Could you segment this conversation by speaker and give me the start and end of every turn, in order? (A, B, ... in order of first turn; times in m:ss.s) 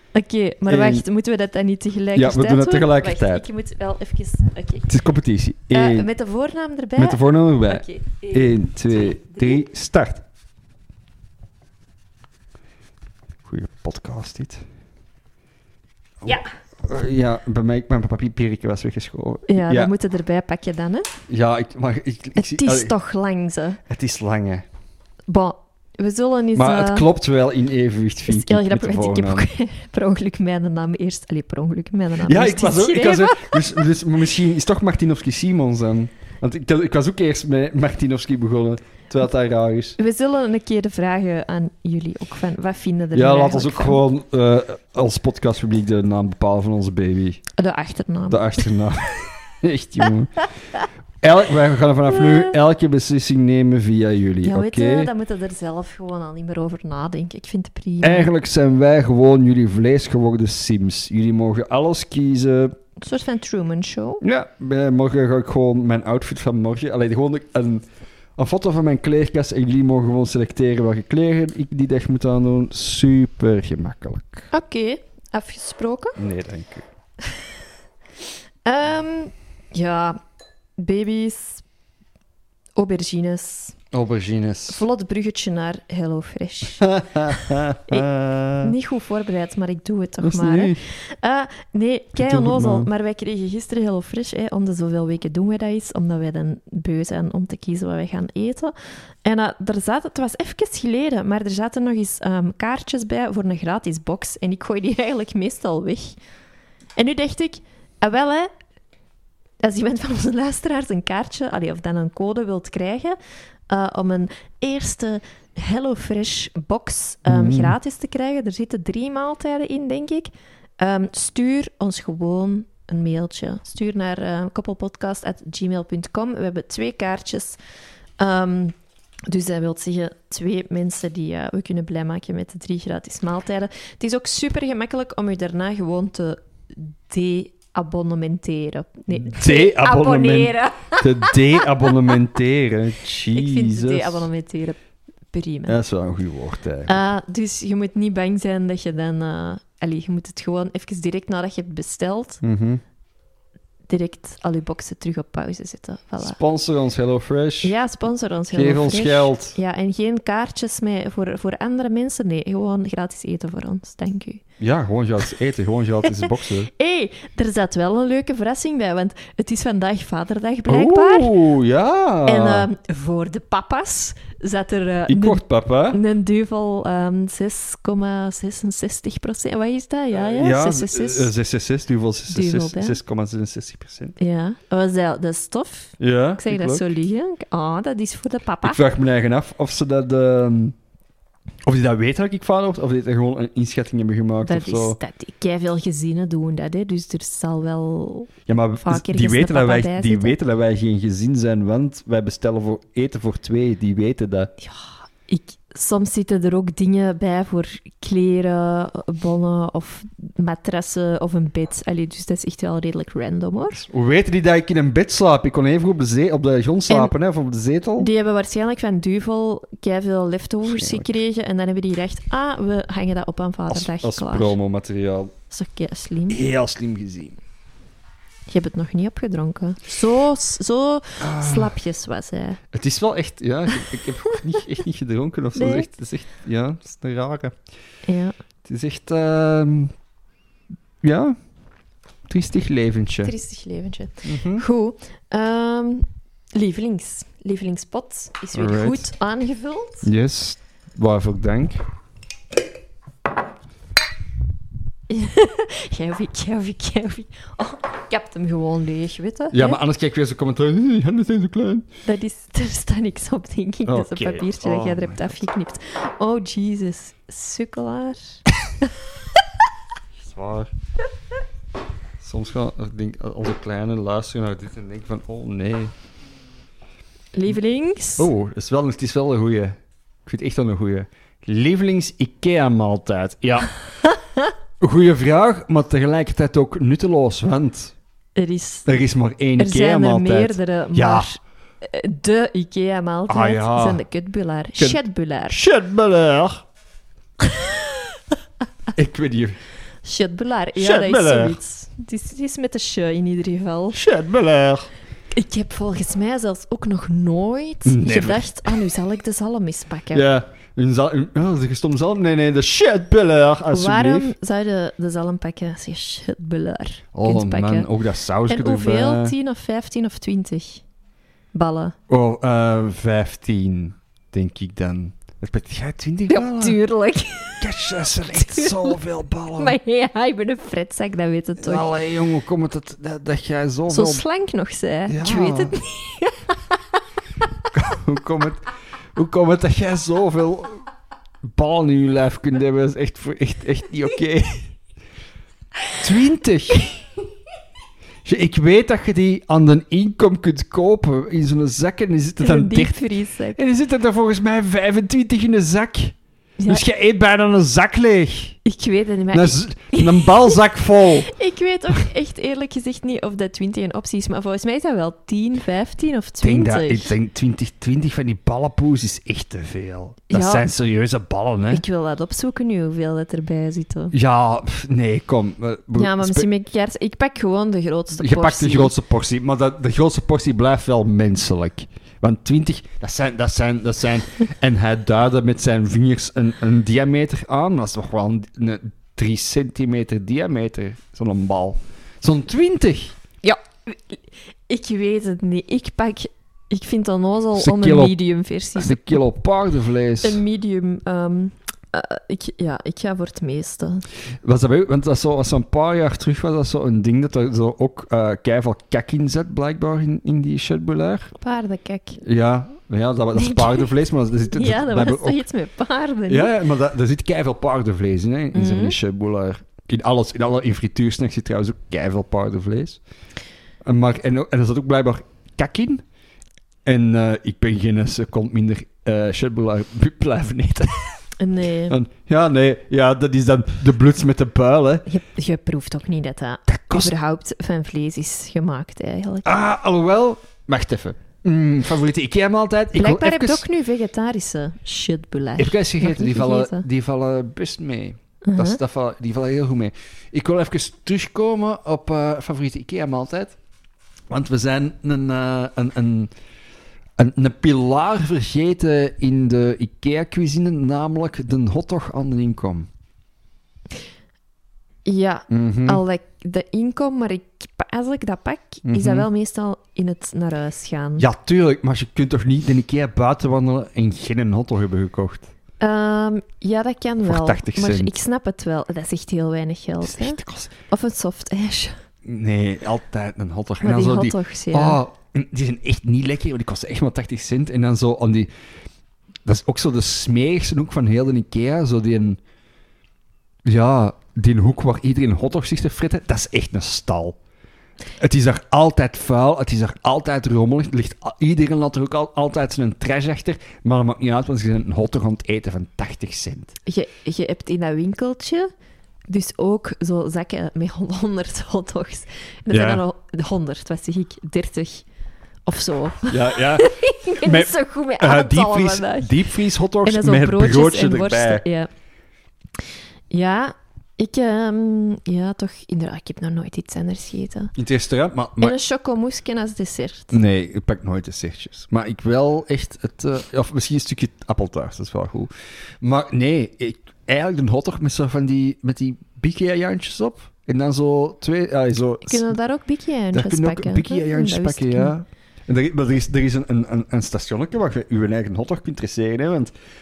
0:00.2-0:04.9 A
0:00.7-0:01.0 B
0:02.2-0:03.4 B
0:04.9-0:06.1 B
0:05.7-0:09.6 A
0:07.0-0:10.2 B
0:13.5-0:14.6 B
0:16.2-0:19.9 B
0:19.5-0:21.1 A
0:21.3-0:22.9 B
0:22.4-0:23.8 A
0:23.9-0:24.6 B
0:25.3-0:27.1 A
0:26.6-0:29.5 B
0:28.3-0:33.8 A
0:32.3-0:40.0 B
0:40.0-0:44.0 A
0:43.1-0:47.4 B
0:47.6-0:48.7 A
0:48.3-0:50.4 B
0:51.2-0:55.1 B
0:54.4-0:58.3 A
0:58.0-1:02.8 B
1:03.0-1:04.2 A
1:04.2-1:07.8 B
1:08.4-1:14.5 B
1:14.5-1:16.2 A
1:16.2-1:16.9 B
1:18.6-1:20.2 A
1:20.8-1:21.6 A
1:22.8-1:23.8 A
1:23.9-1:24.8 B
1:24.7-1:28.1 A
1:26.8-1:28.7 B
1:28.6-1:46.2 A
1:30.2-1:30.8 B
1:32.2-1:32.9 B
1:47.0-1:48.5 A
1:49.6-1:53.2 A
1:53.7-2:07.6 A
1:57.3-1:57.8 B
2:08.2-2:08.7 A
2:09.3-2:22.0 A
2:19.1-2:24.3 B
2:23.3-2:24.8 A
2:25.3-2:25.8 A
2:25.7-2:27.0 B
2:26.9-2:32.4 A
2:32.4-2:32.8 B
2:33.9-2:36.4 A
2:36.2-2:37.7 B
2:37.6-2:44.4 A
2:38.5-2:39.6 B
2:44.6-2:46.7 B
2:46.7-2:51.3 A
2:50.7-2:52.7 B
2:52.3-3:01.3 A
2:55.1-2:56.0 B
3:00.1-3:04.2 B
3:02.3-3:03.0 A
3:04.2-3:08.8 A
3:06.0-3:06.8 B
3:08.6-3:10.8 B
3:11.6-3:15.0 B
3:14.4-3:20.4 A
3:18.5-3:24.5 B
3:24.6-3:33.9 A
3:33.9-3:38.1 B
3:38.0-3:44.6 A
3:40.7-3:41.1 B
3:43.7-3:45.3 B
3:45.5-3:46.4 A
3:46.3-3:47.4 B
3:48.5-3:52.6 A
3:51.2-3:51.8 B
3:52.7-3:57.6 B
3:55.6-3:55.9 A
3:58.1-3:58.3 A
3:58.6-3:59.9 B
4:01.0-4:01.4 B
4:02.3-4:03.3 B
4:03.2-4:10.1 A
4:04.2-4:04.6 B
4:08.5-4:09.1 B
4:10.0-4:11.8 B
4:15.1-4:19.8 A
4:19.5-4:21.9 B
4:22.0-4:28.4 A
4:23.9-4:25.4 B
4:30.2-4:30.7 B
4:32.2-4:35.9 B
4:37.3-4:38.3 A
4:38.2-4:43.7 B
4:44.1-4:44.5 A
4:44.8-4:47.9 B
4:48.4-4:48.9 A
4:48.9-4:51.3 B
4:49.6-4:55.6 A
4:53.3-4:54.0 B
4:54.8-4:56.6 B
4:58.9-4:59.6 B
5:00.0-5:04.0 A
5:00.8-5:01.6 B
5:03.9-5:04.9 B
5:05.3-5:10.3 A
5:07.9-5:08.8 B
5:10.1-5:14.3 B
5:13.7-5:17.9 A
5:17.1-5:19.4 B
5:18.5-5:20.8 A
5:21.5-5:22.0 A
5:22.1-5:26.8 B
5:26.3-5:29.0 A
5:27.6-5:29.8 B
5:29.6-5:31.9 A
5:31.6-5:34.2 B
5:33.9-5:36.8 A
5:35.1-5:35.8 B
5:37.7-5:38.6 B
5:39.2-5:40.8 B
5:41.4-5:44.7 B
5:46.0-5:47.0 B
5:48.2-5:53.0 B
5:52.4-5:53.6 A
5:53.6-5:56.2 B
5:56.7-5:58.6 B
5:58.6-6:00.6 A
5:59.3-6:01.3 B
6:01.2-6:07.1 A
6:06.4-6:11.8 B
6:10.3-6:10.7 A
6:11.7-6:14.2 A
6:14.1-6:16.5 B
6:16.0-6:18.9 A
6:18.1-6:33.2 B
6:33.4-6:39.2 A
6:37.6-6:38.2 B
6:38.8-6:40.4 B
6:40.2-6:44.0 A
6:44.4-6:51.3 B
6:51.4-6:52.2 A
6:52.2-6:55.4 B
6:53.4-6:53.9 A
6:54.5-6:56.5 A
6:56.3-7:03.0 B
6:58.5-6:59.0 A
7:03.8-7:06.0 B
7:06.8-7:11.2 B
7:11.4-7:12.0 A
7:11.9-7:15.1 B
7:15.1-7:19.6 A
7:16.7-7:17.1 B
7:19.4-7:23.6 B
7:23.0-7:26.8 A
7:25.6-7:33.6 B
7:28.4-7:28.8 A
7:34.3-7:36.3 B
7:37.2-7:42.9 B
7:45.1-7:51.3 A
7:45.5-7:46.0 B
7:48.9-7:49.3 B
7:51.2-7:55.5 B
7:55.8-8:02.0 A
7:57.2-7:58.1 B
8:00.0-8:00.7 B
8:02.2-8:08.5 B
8:03.8-8:05.0 A
8:09.4-8:12.4 B
8:13.6-8:17.4 B
8:18.2-8:26.8 B
8:26.9-8:28.7 A
8:29.3-8:35.0 A
8:32.7-8:33.0 B
8:35.7-8:39.4 A
8:36.3-8:41.6 B
8:40.0-8:41.9 A
8:43.3-8:47.7 A
8:47.8-8:48.8 B
8:48.6-8:50.4 A
8:50.3-9:02.5 B
9:02.3-9:05.1 A
9:03.3-9:09.7 B